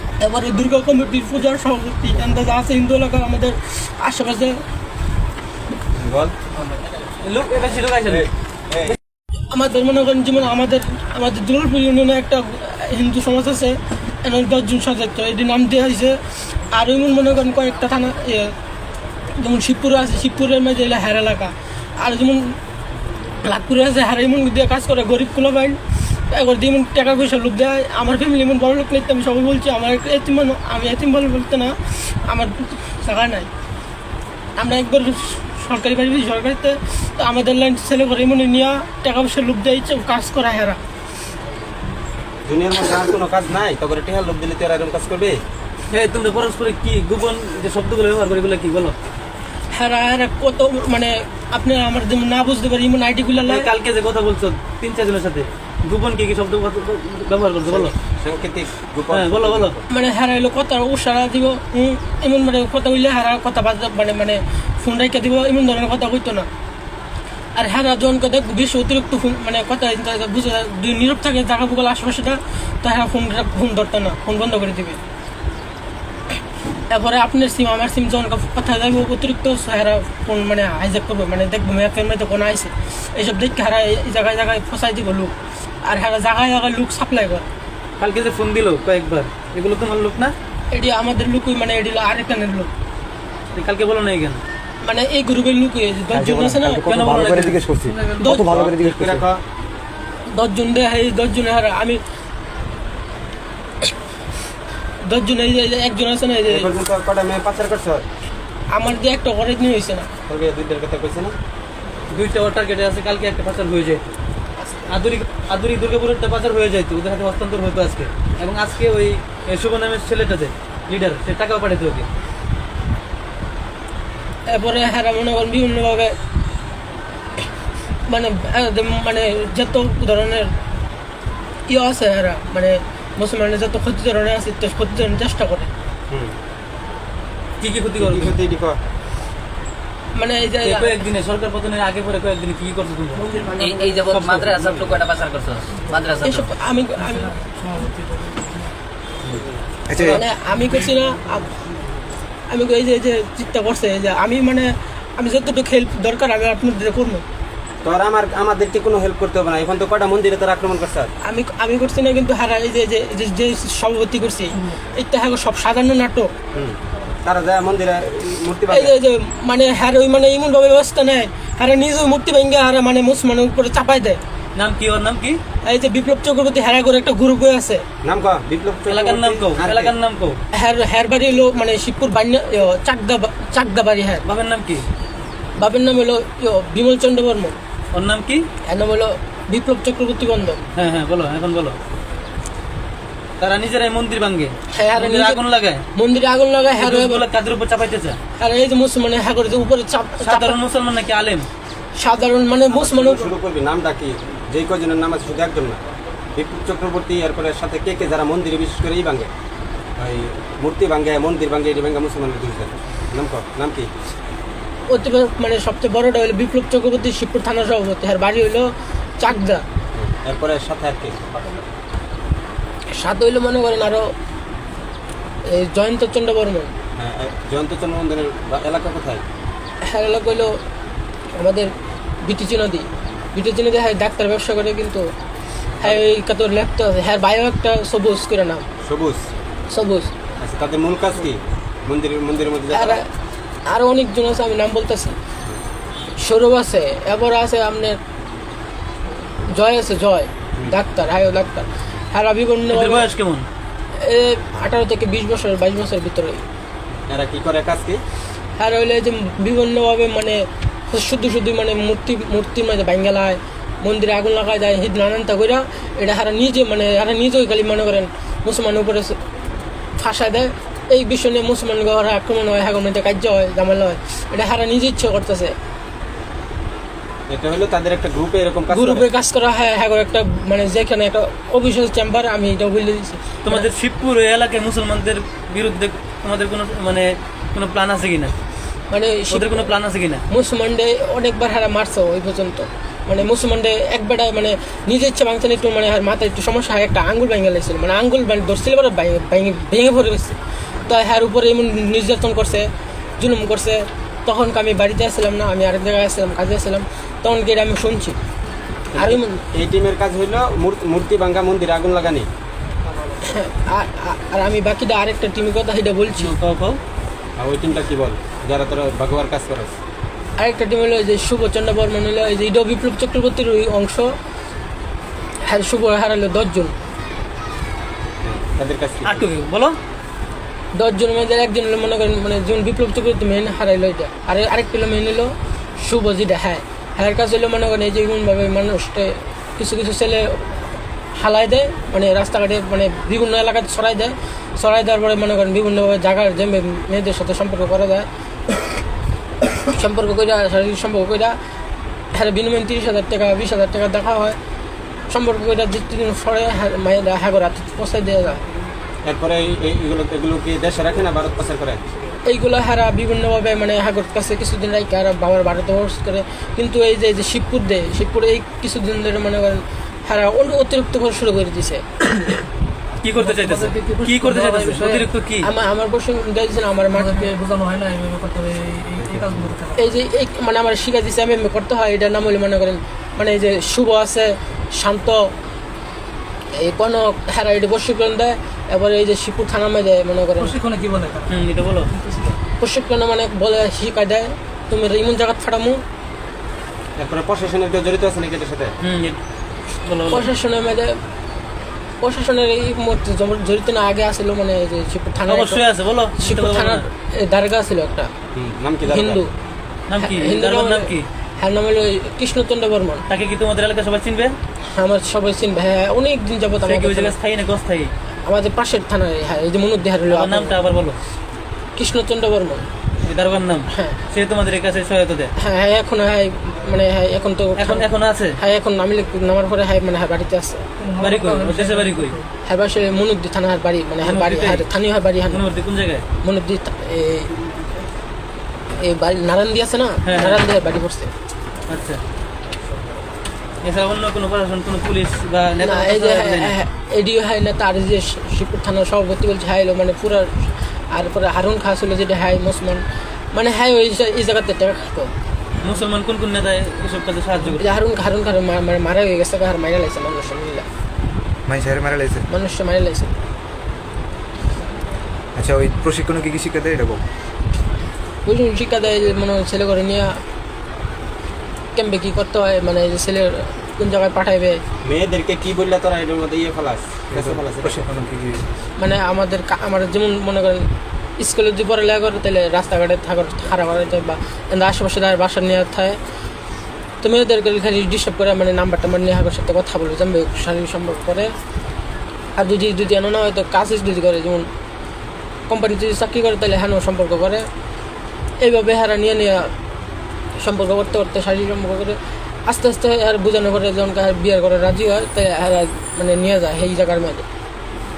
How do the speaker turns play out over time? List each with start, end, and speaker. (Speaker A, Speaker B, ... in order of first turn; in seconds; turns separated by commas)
Speaker A: 0.2-4.6, Speaker B: 6.0-6.3, Speaker C: 7.2-8.3, Speaker B: 8.1-9.0, Speaker A: 9.5-16.2, Speaker A: 16.7-18.5, Speaker A: 19.4-22.6, Speaker A: 23.4-25.8, Speaker A: 26.3-33.5, Speaker A: 34.6-40.8, Speaker B: 42.5-45.4, Speaker C: 45.9-49.0, Speaker A: 49.7-53.7, Speaker C: 53.5-58.0, Speaker B: 57.7-59.8, Speaker C: 59.1-59.8, Speaker A: 59.9-66.5, Speaker A: 67.5-75.0, Speaker A: 76.9-85.3, Speaker A: 85.8-87.5, Speaker C: 88.0-90.3, Speaker A: 90.7-92.7, Speaker C: 93.5-94.4, Speaker A: 94.8-96.9, Speaker D: 96.1-99.2, Speaker C: 96.8-97.6, Speaker A: 98.2-98.5, Speaker B: 98.3-99.4, Speaker A: 100.3-102.0, Speaker A: 105.0-106.7, Speaker B: 106.5-108.1, Speaker A: 108.7-110.1, Speaker B: 110.3-111.4, Speaker C: 112.1-114.1, Speaker A: 114.6-115.0, Speaker C: 114.9-122.1, Speaker A: 124.5-126.2, Speaker A: 128.1-130.5, Speaker A: 131.7-135.7, Speaker C: 137.6-138.4, Speaker B: 138.0-138.8, Speaker A: 140.2-140.9, Speaker C: 140.6-143.4, Speaker E: 143.3-143.8, Speaker F: 143.6-146.5, Speaker C: 144.1-144.5, Speaker B: 144.6-144.9, Speaker A: 146.2-147.4, Speaker D: 149.9-150.2, Speaker A: 150.0-151.5, Speaker A: 152.5-157.2, Speaker B: 157.8-161.1, Speaker A: 161.2-166.3, Speaker B: 166.5-168.9, Speaker A: 168.7-174.2, Speaker C: 174.6-175.4, Speaker A: 175.7-177.8, Speaker B: 178.0-179.9, Speaker C: 178.9-180.4, Speaker A: 180.5-184.3, Speaker C: 184.2-184.9, Speaker A: 185.6-187.6, Speaker C: 187.9-188.4, Speaker A: 188.7-190.6, Speaker C: 190.8-191.8, Speaker C: 193.4-195.8, Speaker A: 194.7-195.4, Speaker A: 195.9-197.2, Speaker C: 196.8-198.2, Speaker A: 198.4-200.6, Speaker C: 200.2-201.5, Speaker A: 202.0-203.3, Speaker B: 202.7-205.8, Speaker B: 206.3-209.3, Speaker B: 210.0-213.9, Speaker A: 214.9-218.7, Speaker A: 219.2-219.6, Speaker B: 220.0-221.2, Speaker A: 223.0-224.1, Speaker A: 225.5-226.7, Speaker B: 227.0-229.2, Speaker A: 229.9-230.6, Speaker A: 231.3-231.7, Speaker A: 232.2-235.1, Speaker A: 235.8-238.7, Speaker B: 238.8-239.2, Speaker A: 239.7-240.1, Speaker B: 240.4-243.0, Speaker A: 242.7-243.1, Speaker A: 243.7-245.2, Speaker A: 246.2-248.0, Speaker A: 249.5-253.1, Speaker C: 252.7-253.5, Speaker A: 254.0-256.4, Speaker B: 257.1-258.0, Speaker A: 258.6-269.2, Speaker A: 270.0-275.5, Speaker B: 277.3-279.1, Speaker A: 278.7-283.7, Speaker C: 283.4-288.3, Speaker A: 288.9-289.7, Speaker C: 289.3-290.2, Speaker A: 290.3-300.4, Speaker A: 300.9-302.7, Speaker A: 303.2-308.1, Speaker B: 308.9-312.3, Speaker A: 309.0-309.4, Speaker A: 313.2-316.3, Speaker C: 316.1-316.8, Speaker B: 317.4-319.7, Speaker A: 320.4-324.1, Speaker A: 325.5-326.7, Speaker B: 328.2-329.2, Speaker C: 329.0-329.8, Speaker A: 330.8-340.6, Speaker A: 341.2-348.1, Speaker A: 349.6-351.4, Speaker A: 352.1-354.4, Speaker A: 355.1-358.4, Speaker B: 359.0-361.8, Speaker A: 362.2-371.9, Speaker C: 373.0-375.5, Speaker E: 373.9-375.0, Speaker A: 375.4-377.4, Speaker E: 377.4-379.8, Speaker A: 379.7-385.3, Speaker A: 386.6-390.6, Speaker E: 390.6-391.2, Speaker C: 391.3-391.9, Speaker A: 392.6-395.8, Speaker B: 397.0-398.7, Speaker C: 398.8-399.2, Speaker C: 399.9-400.3, Speaker A: 400.1-401.0, Speaker A: 402.0-405.6, Speaker C: 405.3-406.9, Speaker A: 406.2-408.1, Speaker B: 408.4-409.2, Speaker A: 408.9-409.3, Speaker C: 409.9-411.1, Speaker A: 410.0-413.0, Speaker C: 413.1-414.4, Speaker A: 414.8-417.1, Speaker C: 416.6-417.9, Speaker A: 418.2-420.6, Speaker C: 420.1-421.0, Speaker A: 421.8-422.7, Speaker C: 423.1-425.3, Speaker A: 423.7-424.0, Speaker A: 425.4-427.9, Speaker C: 427.6-428.4, Speaker A: 428.4-430.6, Speaker C: 431.0-432.2, Speaker E: 431.0-432.0, Speaker A: 432.4-435.4, Speaker C: 434.0-434.7, Speaker C: 435.3-436.0, Speaker A: 436.2-437.3, Speaker A: 438.8-441.1, Speaker C: 440.1-440.5, Speaker C: 441.7-442.0, Speaker C: 443.6-446.6, Speaker A: 445.6-455.1, Speaker C: 455.6-457.6, Speaker A: 457.6-460.7, Speaker D: 461.5-462.3, Speaker A: 462.3-463.1, Speaker D: 465.4-467.0, Speaker A: 468.2-470.2, Speaker A: 471.8-474.6, Speaker B: 474.8-477.9, Speaker D: 477.1-478.4, Speaker A: 478.8-486.0, Speaker A: 487.0-491.3, Speaker A: 492.4-494.5, Speaker A: 495.5-497.5, Speaker A: 498.4-499.5, Speaker A: 500.4-502.0, Speaker A: 502.5-507.2